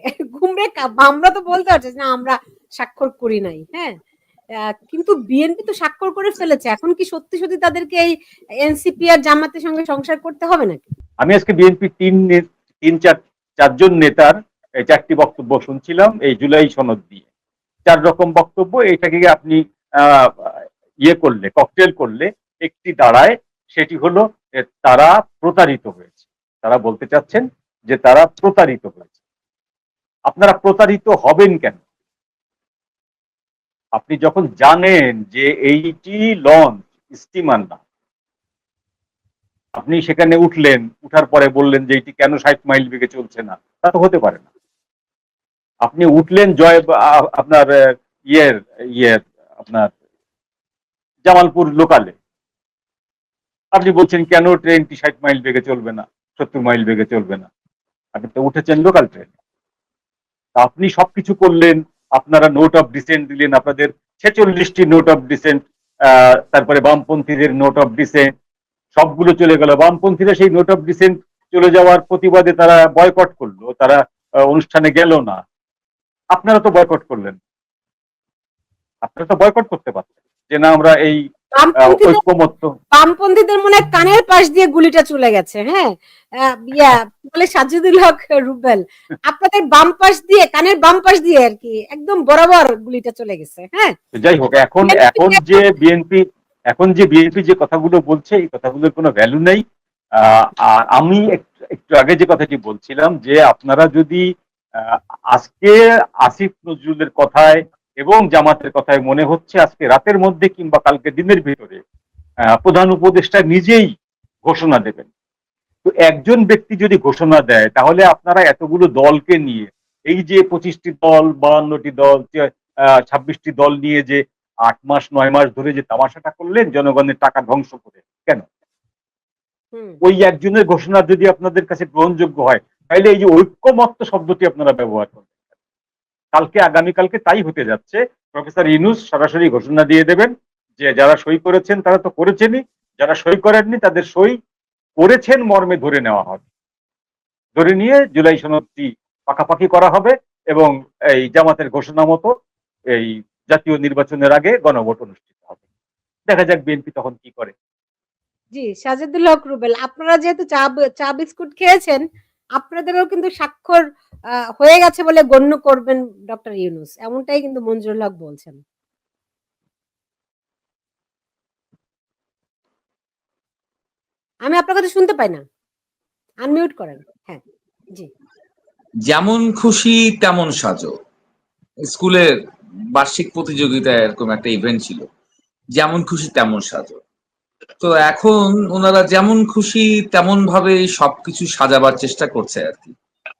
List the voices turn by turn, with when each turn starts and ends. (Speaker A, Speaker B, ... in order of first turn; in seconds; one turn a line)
Speaker A: 0.3-4.0
Speaker A: 4.6-8.1
Speaker A: 8.6-10.9
Speaker B: 11.2-17.2
Speaker B: 17.9-29.1
Speaker B: 30.3-31.8
Speaker B: 34.0-37.8
Speaker B: 39.8-44.5
Speaker B: 45.8-47.7
Speaker B: 48.3-49.9
Speaker B: 51.2-52.1
Speaker B: 53.7-57.5
Speaker B: 58.1-59.3
Speaker B: 60.5-68.3
Speaker B: 68.9-75.4
Speaker B: 76.3-77.4
Speaker B: 79.0-81.2
Speaker A: 81.5-82.2
Speaker B: 81.8-82.7
Speaker A: 82.9-93.9
Speaker B: 94.1-99.6
Speaker A: 94.8-95.6
Speaker B: 100.2-104.2
Speaker B: 104.8-111.8
Speaker B: 112.5-113.9
Speaker B: 114.4-115.1
Speaker B: 115.8-122.5
Speaker B: 123.0-128.4
Speaker A: 129.7-130.0
Speaker B: 130.0-135.3
Speaker B: 136.3-144.4
Speaker B: 145.0-146.4
Speaker B: 147.6-152.3
Speaker B: 152.9-155.6
Speaker B: 156.3-157.5
Speaker A: 158.5-162.0
Speaker A: 162.6-163.8
Speaker A: 164.6-168.6
Speaker A: 174.4-175.4
Speaker A: 176.4-177.4
Speaker C: 179.1-180.9
Speaker C: 181.9-182.3
Speaker C: 182.9-185.1
Speaker C: 185.8-187.0
Speaker C: 187.8-192.9